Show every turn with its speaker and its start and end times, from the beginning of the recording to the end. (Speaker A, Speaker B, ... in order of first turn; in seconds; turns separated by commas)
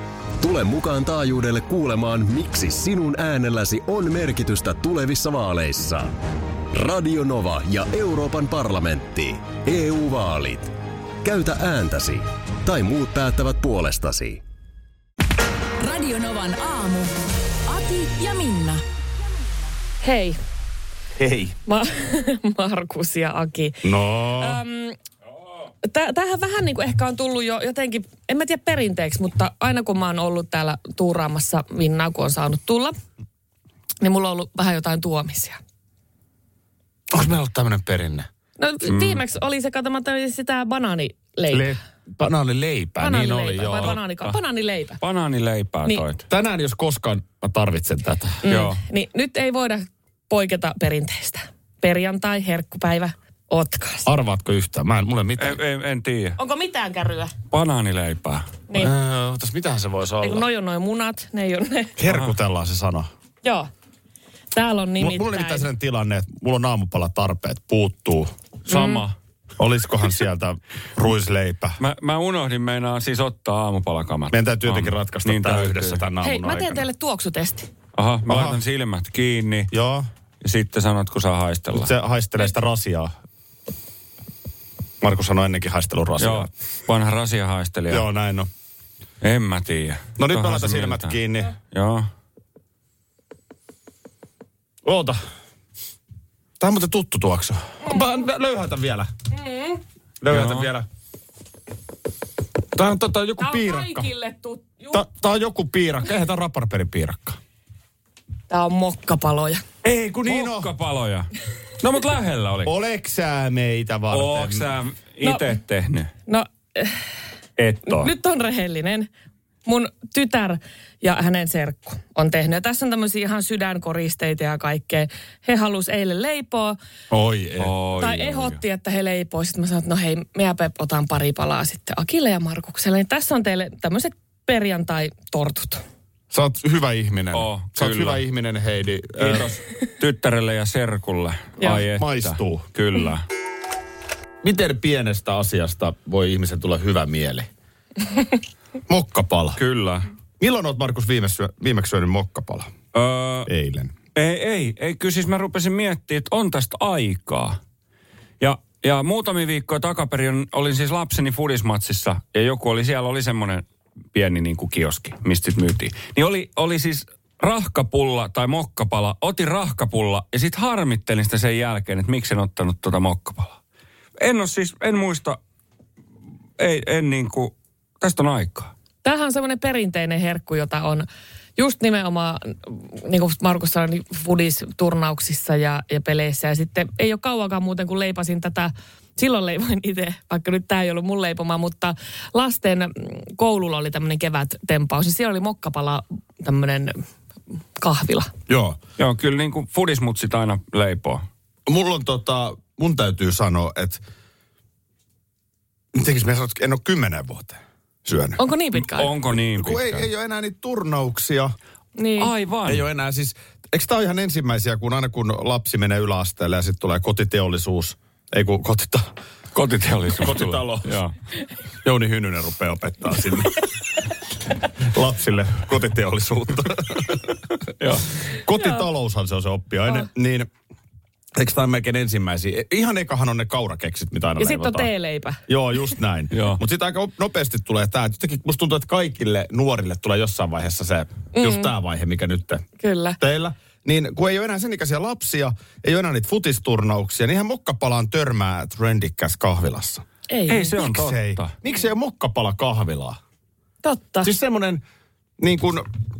Speaker A: 0.4-6.2, Speaker A: 6.7-14.4, Speaker B: 15.8-17.1, Speaker B: 17.7-18.8, Speaker C: 20.0-20.4, Speaker D: 21.2-21.6, Speaker C: 21.7-25.0, Speaker D: 23.8-24.6, Speaker C: 25.8-33.0, Speaker C: 34.0-35.6, Speaker D: 37.1-38.3, Speaker C: 38.6-41.8, Speaker E: 38.9-39.2, Speaker D: 41.5-44.0, Speaker C: 43.0-45.0, Speaker E: 43.7-44.4, Speaker E: 45.0-46.2, Speaker D: 46.3-48.4, Speaker C: 48.4-54.1, Speaker E: 48.5-48.8, Speaker D: 54.1-55.6, Speaker E: 55.4-56.4, Speaker C: 56.4-57.3, Speaker E: 57.5-58.5, Speaker D: 58.7-60.5, Speaker C: 60.2-62.0, Speaker D: 62.0-63.1, Speaker C: 63.4-63.7, Speaker C: 64.5-65.7, Speaker D: 65.0-68.3, Speaker E: 68.7-69.2, Speaker C: 68.7-69.0, Speaker D: 69.6-71.8, Speaker E: 71.8-76.0, Speaker D: 74.3-76.8, Speaker C: 76.2-77.7, Speaker E: 78.0-79.7, Speaker D: 78.3-78.6, Speaker D: 79.7-80.1, Speaker E: 80.4-81.9, Speaker D: 81.7-83.1, Speaker D: 85.0-86.5, Speaker E: 86.2-88.0, Speaker D: 87.9-88.5, Speaker E: 89.2-91.2, Speaker D: 90.2-91.5, Speaker E: 91.7-92.1, Speaker D: 94.8-95.2, Speaker D: 96.6-99.1, Speaker C: 99.3-99.8, Speaker D: 100.2-100.9, Speaker E: 100.3-100.7, Speaker D: 102.7-104.1, Speaker C: 103.4-105.0, Speaker D: 104.9-107.4, Speaker C: 108.5-109.6, Speaker D: 109.8-110.7, Speaker E: 110.3-112.7, Speaker D: 112.6-114.7, Speaker E: 114.1-116.1, Speaker C: 115.2-115.5, Speaker C: 116.3-117.1, Speaker E: 117.6-118.1, Speaker C: 117.9-119.1, Speaker C: 119.7-126.8, Speaker D: 127.1-127.7, Speaker E: 127.6-128.6, Speaker C: 128.0-135.8, Speaker D: 136.3-139.6, Speaker E: 137.3-138.2, Speaker E: 139.2-143.2, Speaker D: 141.7-142.7, Speaker D: 144.4-147.5, Speaker D: 148.9-149.6, Speaker E: 149.6-150.1, Speaker D: 150.4-152.7, Speaker E: 152.9-153.5, Speaker D: 153.5-153.9, Speaker E: 154.2-157.6, Speaker E: 158.4-173.6, Speaker E: 174.2-175.4, Speaker E: 176.6-178.7, Speaker C: 179.0-197.0, Speaker C: 197.8-198.3, Speaker D: 198.5-198.8, Speaker E: 199.0-201.2, Speaker D: 201.7-204.0, Speaker D: 205.9-208.4, Speaker C: 208.4-209.2, Speaker E: 208.8-210.0, Speaker D: 209.5-211.5, Speaker C: 212.0-212.3, Speaker E: 212.2-212.9, Speaker D: 212.7-219.1, Speaker E: 219.5-221.1, Speaker D: 220.1-221.0, Speaker D: 221.8-223.7, Speaker D: 224.8-227.2, Speaker E: 227.8-228.1, Speaker D: 228.3-230.5, Speaker D: 231.4-234.9, Speaker C: 234.4-235.4, Speaker D: 235.5-242.7, Speaker E: 236.3-236.6, Speaker C: 241.4-241.7, Speaker C: 242.8-243.2, Speaker D: 243.2-250.0, Speaker C: 250.3-250.8, Speaker E: 250.5-251.6, Speaker D: 250.8-253.2, Speaker C: 253.8-254.3, Speaker D: 254.2-254.8, Speaker D: 255.4-255.9